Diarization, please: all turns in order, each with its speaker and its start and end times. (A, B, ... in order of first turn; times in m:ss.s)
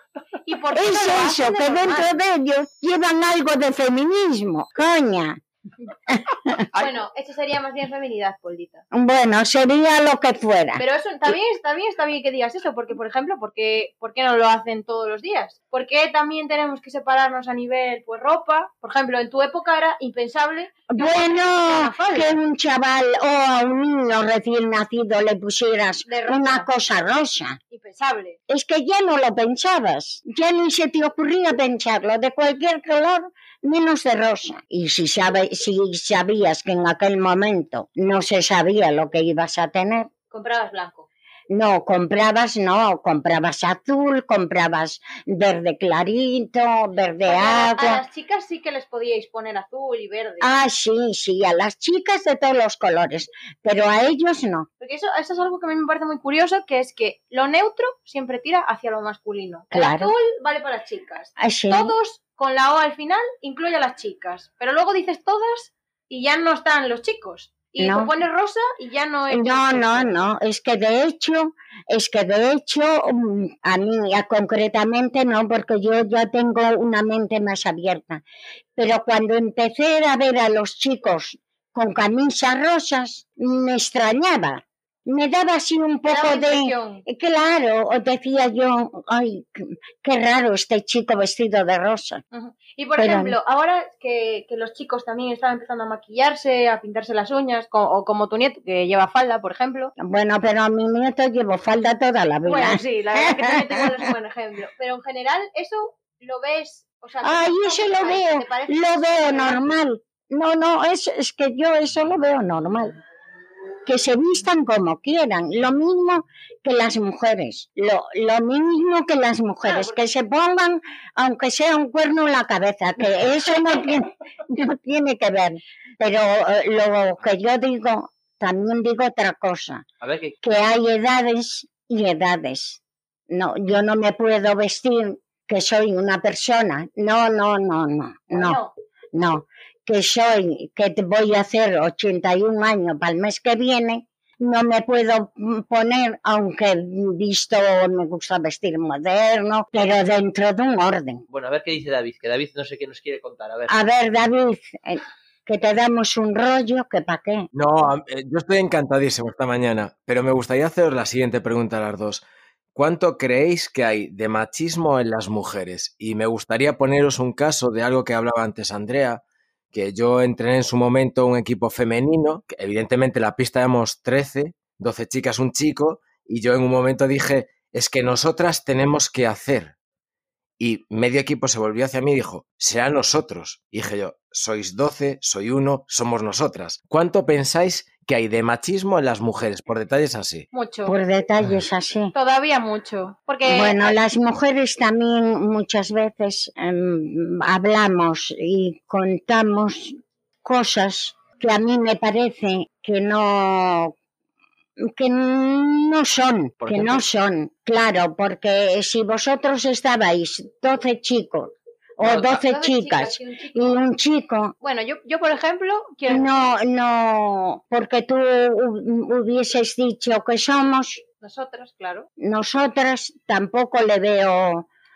0:00.4-0:02.2 A
0:00.7-0:05.4 B
0:06.1-0:06.6 B
0:06.7-0:08.8 A
0:08.9-0:10.8 B
0:10.8-0:22.4 A
0:20.9-0:27.6 B
0:26.1-0:26.7 A
0:27.7-0:28.4 A
0:28.5-0:40.1 B
0:40.3-0:41.1 A
0:41.5-0:48.0 B
0:47.3-0:50.5 A
0:50.4-0:54.7 B
0:54.8-1:10.2 A
0:59.7-1:00.1 B
1:01.4-1:01.9 B
1:07.8-1:08.1 B
1:09.3-1:18.2 B
1:18.8-1:32.2 B
1:26.1-1:27.0 A
1:32.3-1:39.9 A
1:33.0-1:33.4 B
1:40.0-1:43.9 B
1:42.4-1:49.6 A
1:47.2-1:52.9 B
1:53.9-2:09.8 B
1:59.7-2:00.0 A
2:10.0-2:10.4 C
2:10.4-2:18.6 B
2:18.3-2:18.7 A
2:19.1-2:31.2 B
2:31.3-2:33.8 C
2:33.7-2:37.5 B
2:37.5-2:42.2 D
2:42.8-2:49.2 D
2:49.7-2:59.7 D
3:00.6-3:10.5 D
3:10.5-3:11.0 A
3:10.9-3:12.1 B
3:12.1-3:14.0 A
3:13.4-3:24.0 B
3:24.8-3:34.5 B
3:26.6-3:27.0 C
3:32.0-3:33.8 A
3:34.6-3:36.3 A
3:36.1-3:41.0 B
3:41.2-3:42.1 A
3:42.2-3:44.7 B